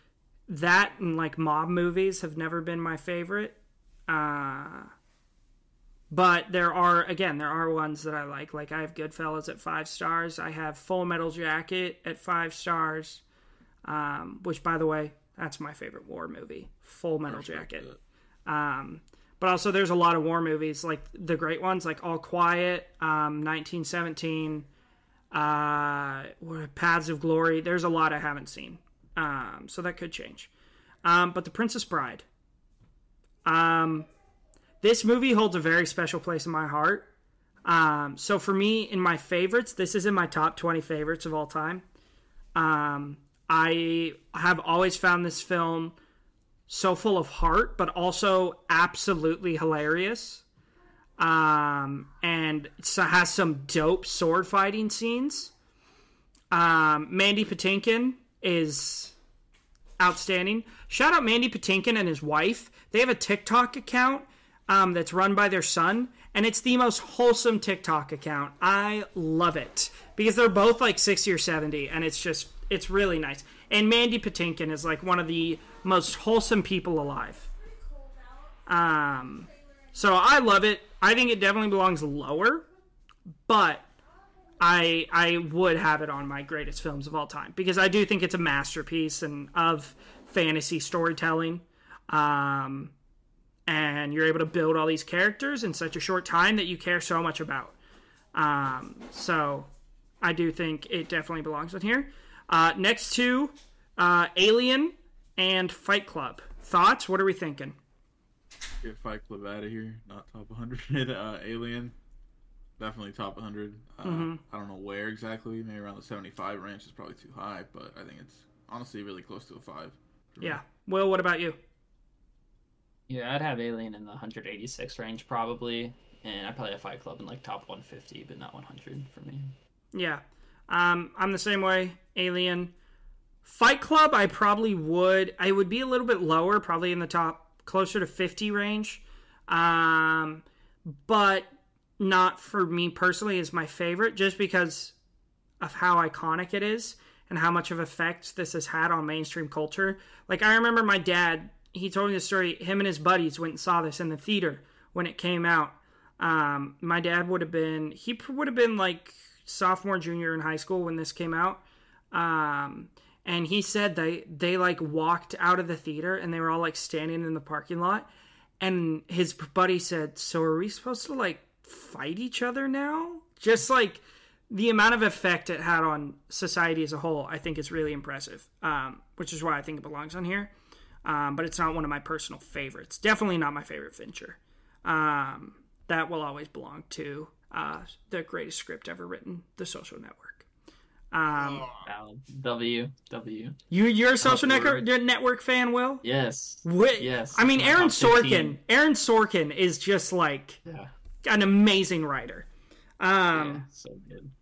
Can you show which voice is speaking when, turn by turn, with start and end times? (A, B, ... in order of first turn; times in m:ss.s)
0:00.5-0:04.9 A
0:06.1-0:13.2 A
0:13.8-0:17.8 A
0:17.3-0:18.0 B
0:18.4-0:24.7 A
0:25.3-0:30.5 A
0:31.0-0:32.2 A
0:33.4-0:34.1 A
0:34.8-0:37.1 A
0:37.6-0:41.8 A
0:42.6-0:46.0 A
0:46.7-0:50.4 A
0:51.2-0:55.5 A
0:56.5-0:59.1 A
1:00.0-1:17.5 A
1:18.7-1:22.7 A
1:23.5-1:23.9 A
1:24.6-1:32.9 A
1:33.7-1:37.8 A
1:38.3-1:39.7 A
1:40.2-1:47.8 A
1:48.8-1:51.9 B
1:52.8-2:00.6 B
1:54.0-1:54.4 A
2:00.4-2:01.6 A
2:03.1-2:09.5 C
2:09.9-2:12.7 A
2:13.4-2:25.0 A
2:25.6-2:48.1 A
2:48.6-3:00.5 A
3:01.0-3:10.4 A
3:11.1-3:11.7 A
3:11.3-3:11.9 B
3:11.8-3:13.6 C
3:13.7-3:16.0 A
3:14.2-3:14.8 C
3:16.0-3:18.6 C
3:16.6-3:20.6 A
3:20.6-3:20.9 C
3:21.2-3:22.4 A
3:23.0-3:23.6 A
3:23.3-3:24.3 C